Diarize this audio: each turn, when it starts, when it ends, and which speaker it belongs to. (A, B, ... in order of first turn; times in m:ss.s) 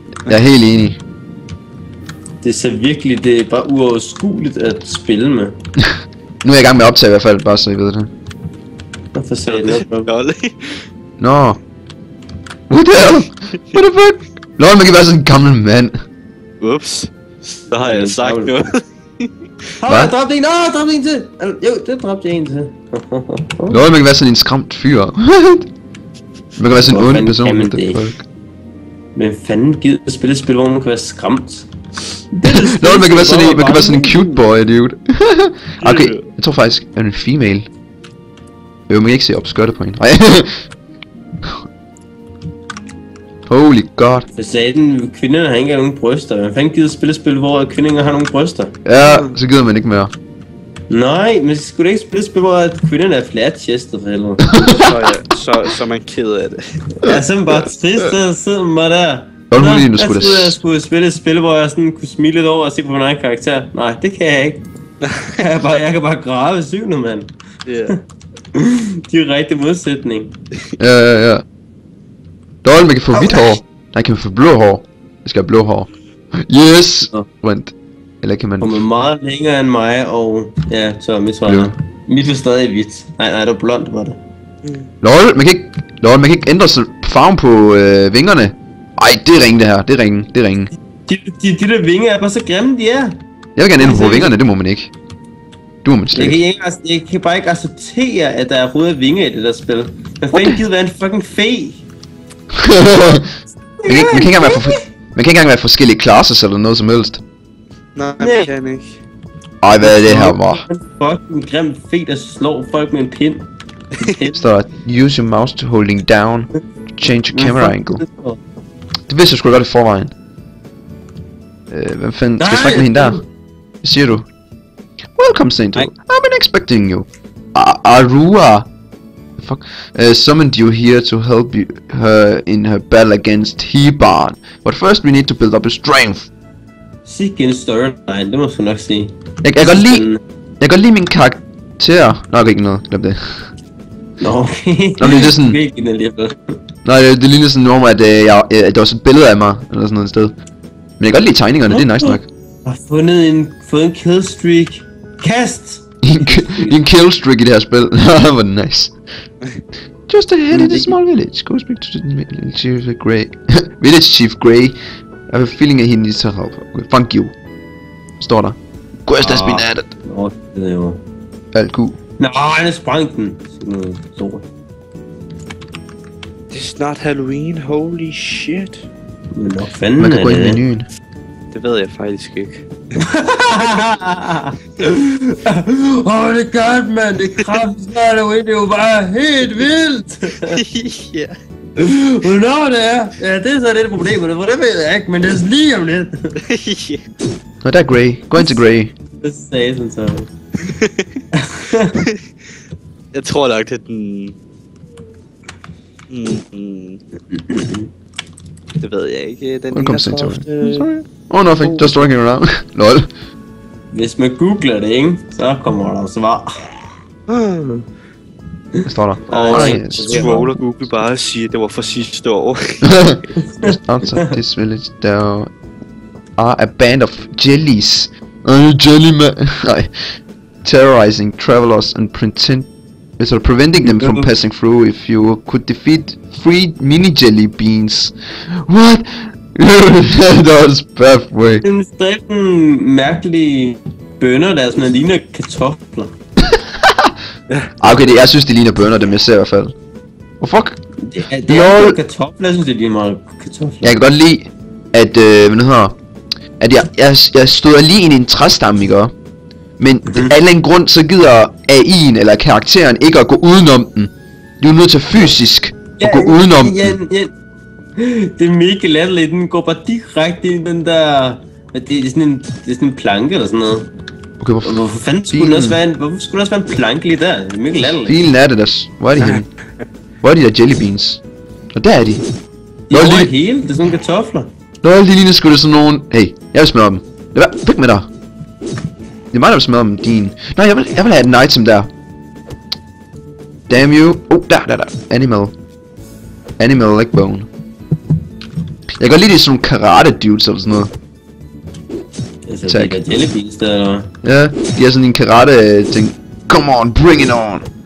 0:00.3-0:01.0 A
0:02.4-0:05.6 B
0:05.8-0:08.1 A
0:09.1-0:10.1 B
0:09.6-0:10.8 C
0:11.2-0:11.6 A
0:12.7-0:16.0 A
0:16.6-0:19.3 C
0:17.8-0:18.7 B
0:19.8-0:23.8 B
0:19.9-0:20.1 A
0:23.7-0:25.7 A
0:26.6-0:28.2 A
0:26.7-0:28.1 B
0:29.2-0:31.7 B
0:32.3-0:34.4 B
0:32.4-0:37.7 A
0:35.8-0:36.2 C
0:38.9-0:40.6 A
0:43.5-0:44.3 A
0:44.4-0:48.8 B
0:48.8-0:50.1 A
0:49.0-0:49.3 C
0:50.9-0:54.6 B
0:54.5-0:55.0 A
0:54.6-0:56.8 C
0:57.0-1:04.6 B
0:59.5-1:00.6 A
1:05.3-1:07.3 B
1:07.7-1:07.9 C
1:08.5-1:10.3 B
1:10.8-1:11.4 A
1:12.6-1:15.9 A
1:13.1-1:13.6 B
1:16.4-1:18.8 A
1:18.6-1:24.2 B
1:25.0-1:30.7 A
1:31.1-1:33.2 B
1:33.6-1:34.9 A
1:33.8-1:34.3 B
1:35.8-1:36.4 A
1:36.2-1:41.8 B
1:40.3-1:40.6 A
1:42.5-1:43.3 A
1:43.8-1:44.9 B
1:43.9-1:47.2 A
1:48.0-1:49.0 C
1:48.2-1:48.5 B
1:49.6-1:50.6 A
1:49.8-1:54.4 B
1:54.3-1:58.0 A
1:57.3-1:58.4 B
1:59.1-2:00.1 A
2:01.7-2:03.2 A
2:02.4-2:03.2 B
2:03.8-2:04.3 A
2:05.2-2:08.7 A
2:09.4-2:16.3 A
2:17.1-2:20.2 B
2:19.4-2:20.1 A
2:20.6-2:23.5 A
2:24.2-2:26.6 B
2:25.0-2:25.6 A
2:26.8-2:30.4 A
2:31.0-2:32.2 A
2:31.7-2:36.8 B
2:36.0-2:39.0 A
2:40.1-2:44.8 A
2:40.5-2:41.0 B
2:45.3-2:47.3 A
2:48.2-2:49.9 A
2:49.2-2:51.0 B
2:51.5-2:52.0 A
2:52.2-2:54.4 B
2:56.5-2:58.8 C
2:59.3-3:00.6 B
3:00.0-3:00.9 A
3:01.5-3:02.7 C
3:03.0-3:10.6 B
3:10.5-3:11.3 C
3:11.8-3:16.4 B
3:16.4-3:17.0 C
3:17.6-3:18.9 A
3:19.2-3:20.3 B
3:20.6-3:21.2 C
3:21.3-3:22.1 B
3:23.1-3:24.3 C
3:26.1-3:27.0 C
3:27.3-3:27.9 B
3:28.8-3:31.0 C
3:29.7-3:33.1 A
3:31.6-3:32.1 C
3:33.9-3:36.6 B
3:37.3-3:37.8 C
3:38.8-3:40.5 B
3:38.8-3:40.5 A
3:39.3-3:42.9 C
3:42.8-3:45.5 A
3:43.3-3:44.3 B
3:46.4-4:01.6 A
3:53.8-3:54.3 B
4:01.6-4:06.2 B
4:06.4-4:07.1 A
4:07.8-4:09.8 A
4:07.8-4:08.2 B
4:10.4-4:10.8 A
4:11.0-4:14.0 B
4:11.5-4:12.0 A
4:13.8-4:16.0 A
4:16.6-4:19.1 A
4:19.8-4:27.0 A
4:20.0-4:20.3 B
4:26.0-4:27.3 B
4:28.0-4:33.9 B
4:34.4-4:35.8 A
4:34.6-4:38.2 B
4:38.0-4:39.5 A
4:40.2-4:41.2 A
4:41.7-4:42.2 A
4:42.9-4:44.5 B
4:42.9-4:43.3 A
4:44.8-4:48.1 A
4:49.3-4:51.9 A
4:53.7-4:55.5 A
4:56.6-4:57.5 A
4:58.9-5:00.9 A
5:02.5-5:04.1 B
5:02.7-5:03.0 A
5:04.2-5:07.7 A